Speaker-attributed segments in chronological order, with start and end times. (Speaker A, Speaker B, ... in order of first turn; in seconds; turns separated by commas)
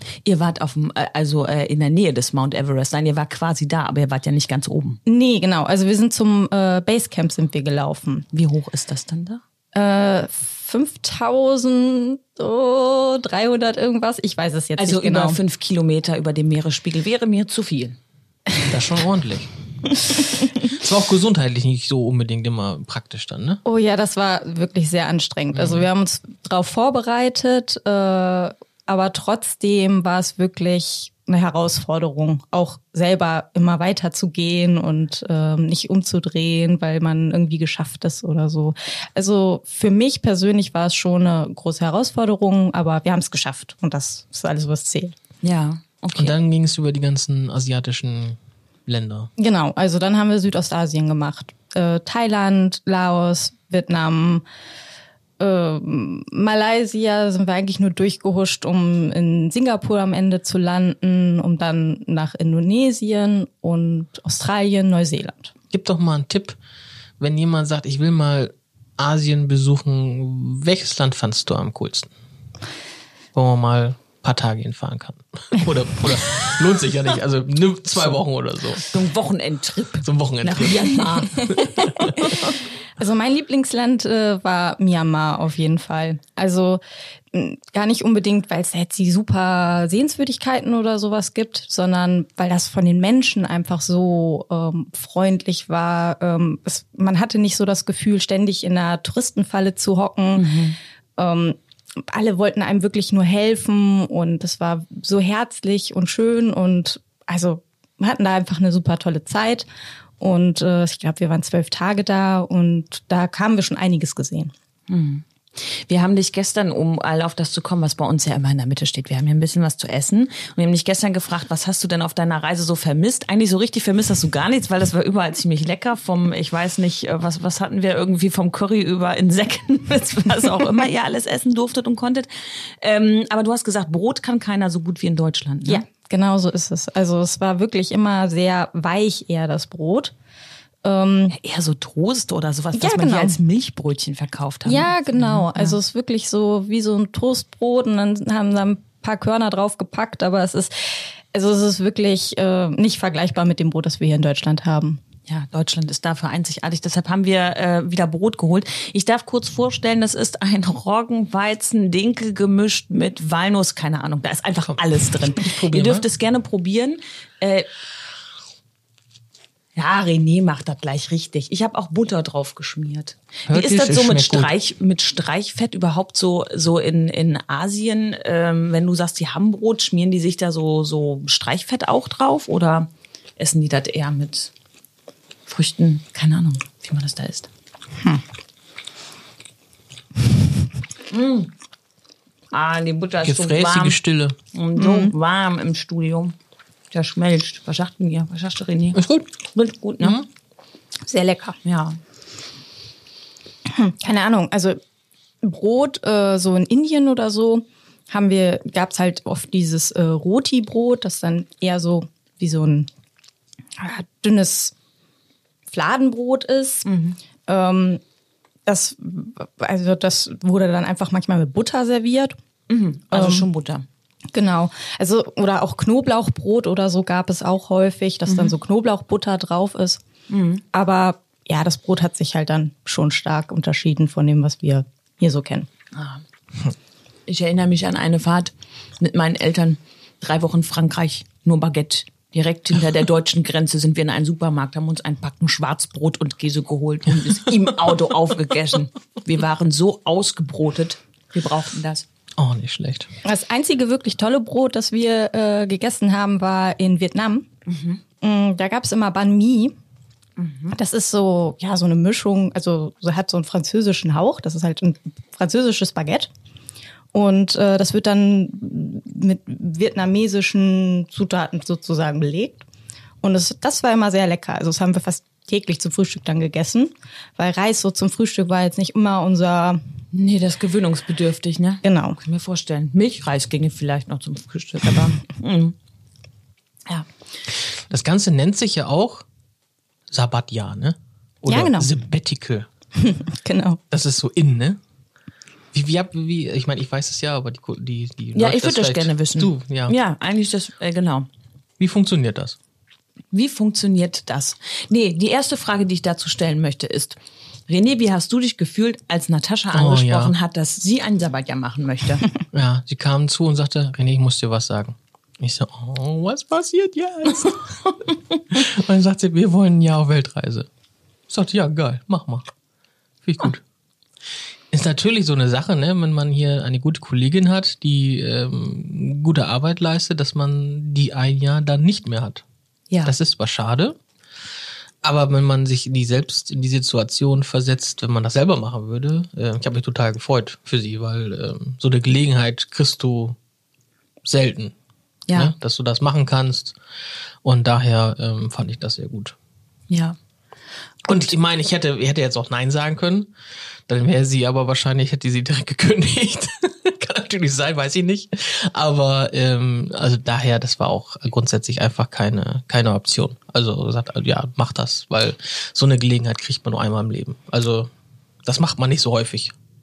Speaker A: 0.2-5.0, Speaker B: 5.0-8.2, Speaker A: 8.3-9.4, Speaker B: 9.7-15.4, Speaker A: 14.8-18.0, Speaker C: 18.7-23.6, Speaker B: 23.6-45.1, Speaker C: 25.5-25.8, Speaker A: 45.4-46.4, Speaker C: 46.1-49.3, Speaker B: 49.4-54.4, Speaker B: 55.4-65.5, Speaker C: 65.7-66.6, Speaker C: 67.2-72.1, Speaker C: 73.3-78.9, Speaker A: 78.9-82.4, Speaker C: 80.0-82.0, Speaker B: 83.0-86.8, Speaker B: 87.3-100.5, Speaker A: 100.3-100.8, Speaker B: 101.2-109.7, Speaker B: 110.2-114.5, Speaker A: 114.9-135.8, Speaker B: 135.7-140.1, Speaker B: 140.8-141.3, Speaker A: 141.3-145.8, Speaker B: 142.7-143.4, Speaker B: 144.6-150.7, Speaker B: 151.3-155.0, Speaker A: 155.3-167.7, Speaker C: 164.7-166.1, Speaker A: 169.8-184.5, Speaker C: 173.5-174.5, Speaker A: 185.5-187.5, Speaker A: 191.1-191.5, Speaker A: 192.5-194.0, Speaker C: 193.2-194.4, Speaker A: 194.5-196.3, Speaker B: 194.8-195.1, Speaker A: 196.9-199.0, Speaker C: 198.9-199.3, Speaker A: 199.5-200.2, Speaker C: 200.0-200.3, Speaker B: 201.0-201.6, Speaker A: 201.6-202.0, Speaker B: 203.7-204.8, Speaker B: 205.4-212.9, Speaker B: 213.8-214.7, Speaker B: 215.7-216.8, Speaker A: 216.8-217.2, Speaker B: 217.5-218.0, Speaker B: 218.7-222.3, Speaker A: 222.7-223.8, Speaker B: 223.1-223.5, Speaker B: 224.3-230.0, Speaker A: 228.3-228.6, Speaker A: 230.3-230.6, Speaker B: 230.7-235.7, Speaker A: 235.9-236.2, Speaker A: 237.3-252.1, Speaker C: 252.4-253.1, Speaker B: 253.2-257.5, Speaker A: 257.7-258.0, Speaker B: 258.2-259.7, Speaker A: 260.4-260.7, Speaker B: 260.7-266.3, Speaker B: 267.1-272.6, Speaker B: 273.2-279.8, Speaker A: 280.1-285.7, Speaker B: 281.8-282.2, Speaker C: 287.9-289.2, Speaker C: 290.1-292.7, Speaker B: 291.5-291.9, Speaker B: 292.9-293.8, Speaker C: 293.9-294.8, Speaker C: 295.7-299.9, Speaker A: 298.3-301.3, Speaker C: 301.8-302.6, Speaker A: 303.3-312.2, Speaker C: 309.7-310.3, Speaker C: 312.5-317.8, Speaker C: 318.5-320.7, Speaker C: 321.3-322.5, Speaker C: 323.2-323.6, Speaker C: 324.7-332.4, Speaker C: 333.0-334.0, Speaker C: 335.0-343.4, Speaker C: 344.2-344.7, Speaker C: 345.3-346.8, Speaker C: 347.4-349.4, Speaker A: 349.9-350.1, Speaker C: 351.1-353.3, Speaker C: 353.9-367.9, Speaker C: 368.4-369.5